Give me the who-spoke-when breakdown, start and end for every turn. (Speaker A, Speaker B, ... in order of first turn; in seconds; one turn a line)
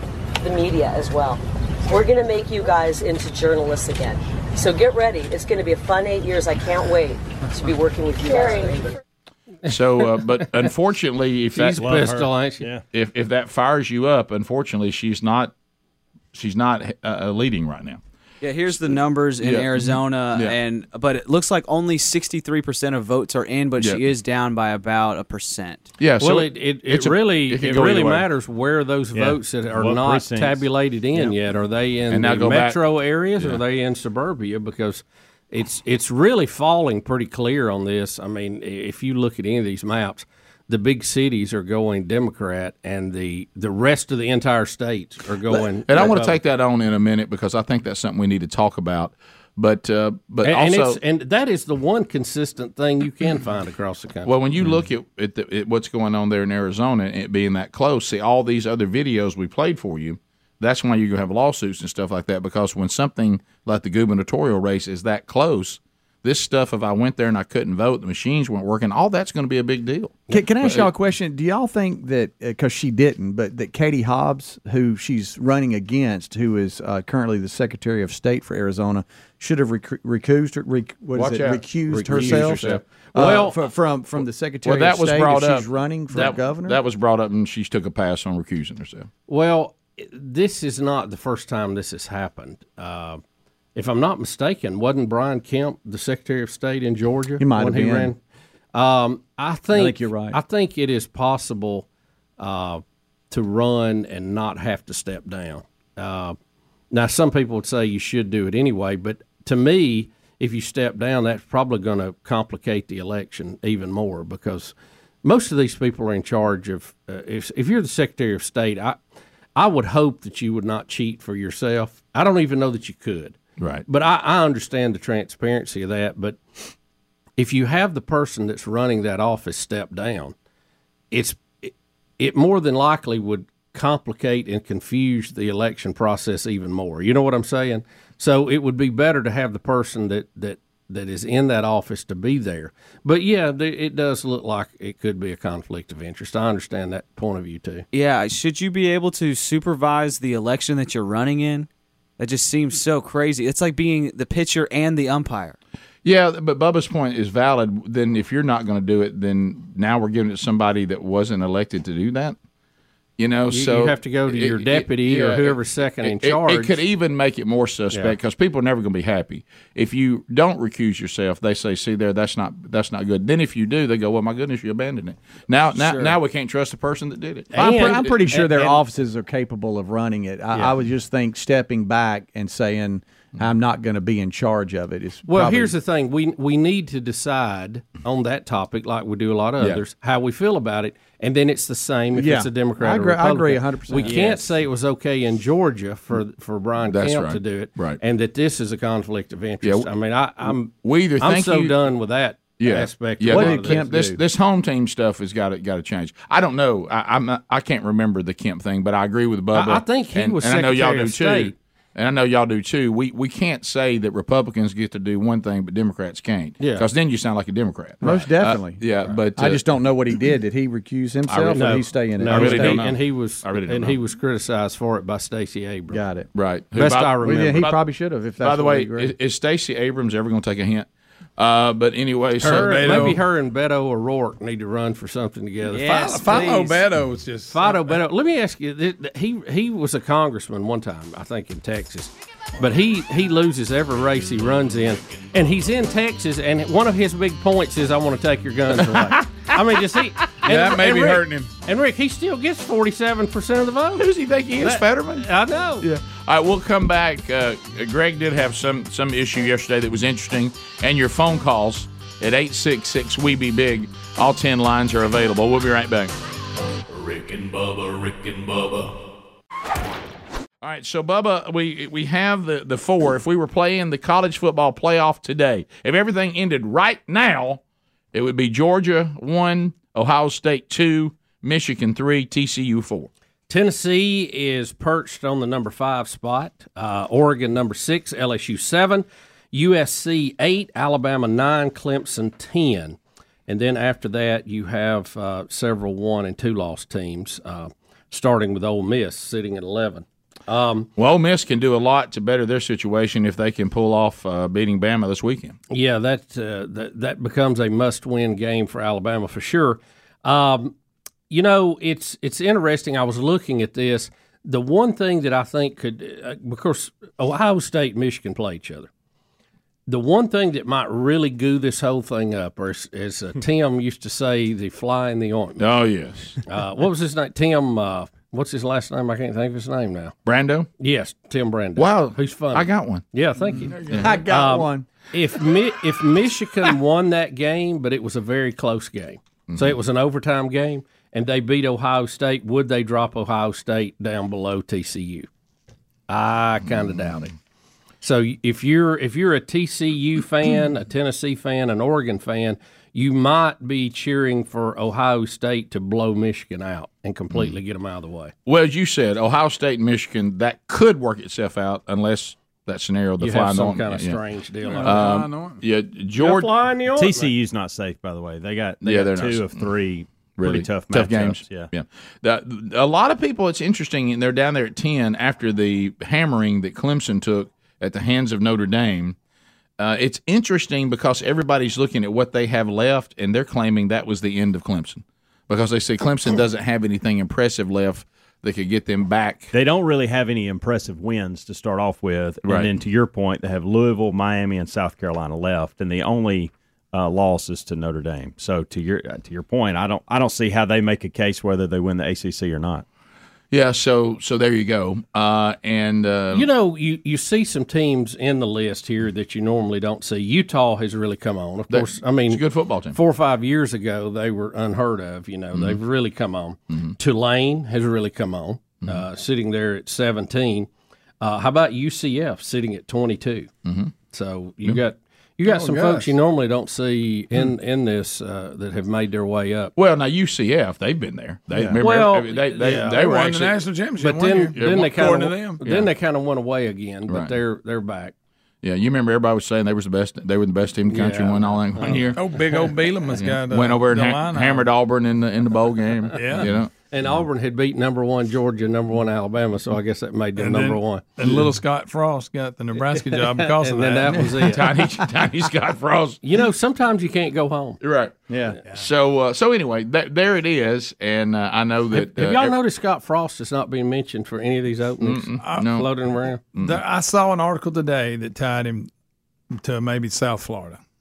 Speaker A: 0.4-8.9
Speaker B: 9.7-12.1
Speaker C: 9.7-10.3
Speaker C: 11.6-12.7
Speaker D: 11.8-12.8
Speaker B: 12.9-15.5
Speaker B: 16.3-18.0
Speaker E: 18.4-25.9
Speaker B: 18.7-20.6
Speaker B: 26.0-28.3
Speaker C: 26.2-46.4
Speaker D: 29.1-31.4
Speaker B: 32.1-32.8
Speaker B: 45.5-51.0
Speaker C: 50.4-54.3
Speaker B: 54.3-70.9
Speaker F: 70.3-86.8
Speaker B: 81.1-82.8
Speaker C: 82.0-83.6
Speaker B: 84.6-89.1
Speaker C: 89.3-93.2
Speaker C: 93.8-98.2
Speaker F: 97.4-98.1
Speaker C: 98.7-101.9
Speaker F: 99.7-100.4
Speaker C: 102.4-106.4
Speaker C: 106.9-119.0
Speaker C: 119.5-126.4
Speaker B: 123.6-123.8
Speaker C: 127.4-130.3
Speaker C: 131.1-147.9
Speaker E: 147.9-155.6
Speaker B: 156.0-162.4
Speaker B: 163.2-178.2
Speaker C: 163.5-166.8
Speaker C: 177.5-178.8
Speaker F: 177.6-185.8
Speaker C: 180.5-180.8
Speaker C: 185.3-204.2
Speaker F: 192.1-194.3
Speaker B: 196.9-198.0
Speaker B: 199.6-199.9
Speaker B: 200.4-201.8
Speaker B: 202.6-219.7
Speaker F: 203.3-204.2
Speaker C: 209.5-211.5
Speaker C: 216.6-216.9
Speaker F: 218.0-218.8
Speaker F: 219.3-222.9
Speaker B: 221.3-221.7
Speaker C: 221.4-226.0
Speaker B: 222.3-224.0
Speaker F: 225.9-226.3
Speaker B: 226.3-227.8
Speaker C: 226.7-227.7
Speaker F: 227.2-229.1
Speaker B: 228.4-233.1
Speaker C: 232.4-236.7
Speaker G: 232.4-233.2
Speaker G: 235.8-238.0
Speaker E: 235.8-236.7
Speaker C: 237.5-254.1
Speaker G: 250.4-251.5
Speaker B: 254.0-255.3
Speaker C: 254.6-255.9
Speaker B: 255.8-266.1
Speaker H: 266.9-268.9
Speaker B: 270.6-277.6
Speaker B: 278.1-283.1
Speaker C: 283.5-300.9
Speaker B: 301.0-305.6
Speaker C: 305.7-310.8
Speaker C: 311.3-318.9
Speaker C: 319.9-325.6
Speaker B: 325.6-326.4
Speaker C: 326.4-330.1
Speaker B: 330.2-330.7
Speaker C: 330.8-345.3
Speaker B: 331.8-333.0
Speaker G: 333.7-334.1
Speaker B: 333.9-334.1
Speaker F: 334.0-334.9
Speaker B: 339.5-339.8
Speaker C: 346.1-347.3
Speaker B: 346.7-347.3
Speaker C: 348.0-358.3
Speaker B: 358.4-364.2
Speaker C: 363.2-365.1
Speaker G: 364.6-365.6
Speaker B: 364.8-366.5
Speaker C: 366.2-367.3
Speaker D: 366.9-371.7
Speaker B: 368.8-369.7
Speaker B: 370.4-379.1
Speaker B: 379.8-389.5
Speaker D: 389.5-402.9
Speaker B: 392.4-392.8
Speaker B: 403.5-406.5
Speaker C: 406.3-420.7
Speaker B: 411.7-413.0
Speaker B: 415.5-415.8
Speaker B: 416.7-416.9
Speaker C: 421.2-423.5
Speaker B: 423.6-423.9
Speaker C: 424.1-429.7
Speaker G: 425.4-426.1
Speaker B: 429.8-433.7
Speaker F: 431.5-431.8
Speaker C: 431.8-433.1
Speaker G: 432.7-435.6
Speaker C: 434.0-438.1
Speaker B: 434.4-435.9
Speaker B: 437.1-437.4
Speaker B: 438.6-446.7
Speaker C: 440.9-442.2
Speaker G: 442.1-444.7
Speaker G: 446.1-446.5
Speaker C: 446.3-451.4
Speaker G: 450.4-454.4
Speaker C: 452.8-454.6
Speaker B: 454.4-456.2
Speaker C: 456.2-457.8
Speaker B: 457.8-462.6
Speaker F: 458.3-458.6
Speaker C: 461.9-466.4
Speaker B: 465.0-465.9
Speaker G: 465.4-465.7
Speaker B: 466.5-466.8
Speaker G: 466.6-468.9
Speaker G: 469.5-470.8